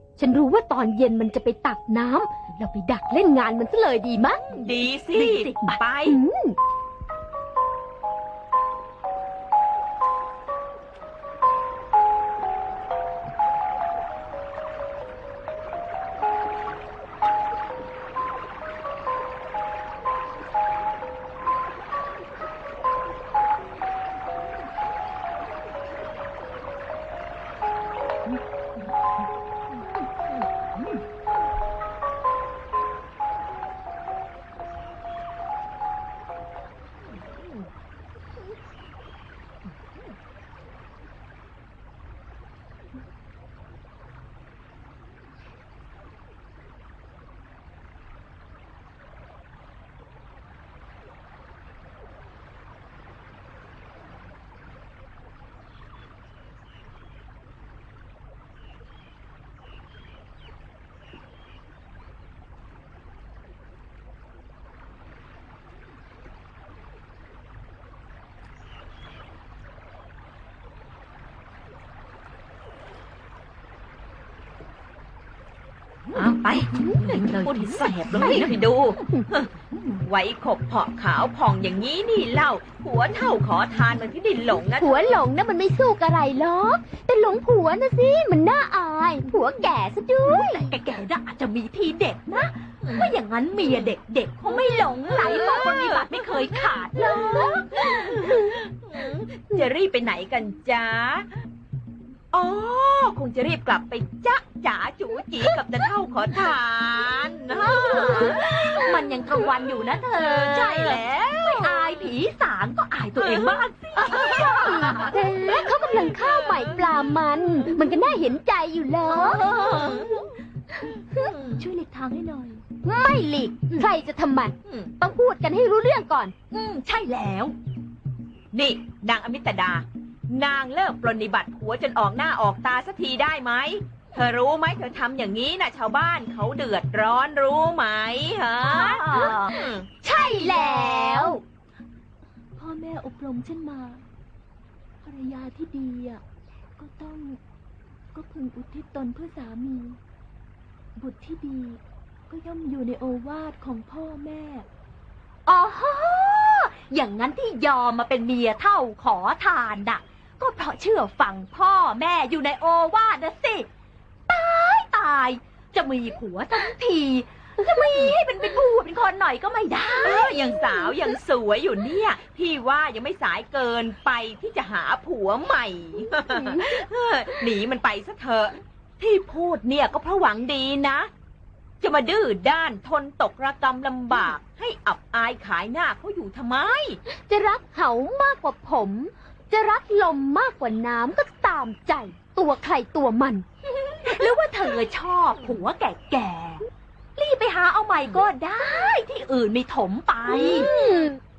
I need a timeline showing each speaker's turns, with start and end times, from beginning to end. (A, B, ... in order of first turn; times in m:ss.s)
0:00.2-0:04.7 A
0:04.5-0:06.2 B
0:05.1-0:05.8 C
0:06.0-0:06.6 A
0:30.7-0:31.0 C
0:37.1-0:37.7 B
1:16.2-1:19.5 B
1:16.8-1:18.6 C
1:18.2-1:19.3 A
1:19.7-1:20.0 C
1:20.0-1:25.2 B
1:24.8-1:30.7 A
1:30.2-1:38.1 C
1:32.8-1:33.1 B
1:35.1-1:41.3 B
1:42.3-1:52.1 B
1:47.6-1:55.2 C
1:53.2-1:57.0 B
1:54.4-1:59.5 A
1:59.1-2:00.2 C
1:59.2-2:00.3 B
2:01.1-2:01.7 B
2:01.6-2:02.6 C
2:02.8-2:06.3 A
2:04.7-2:04.9 B
2:06.5-2:07.6 C
2:08.5-2:19.9 B
2:18.6-2:19.6 C
2:19.1-2:21.4 A
2:20.2-2:21.4 C
2:22.6-2:24.0 C
2:25.0-2:26.2 C
2:26.8-2:27.4 C
2:28.1-2:30.0 C
2:31.0-2:34.7 C
2:35.5-2:43.7 C
2:44.3-2:50.6 C
2:50.0-3:01.1 B
3:01.8-3:07.0 B
3:07.2-3:13.4 A
3:14.0-3:20.7 C
3:20.3-3:21.2 A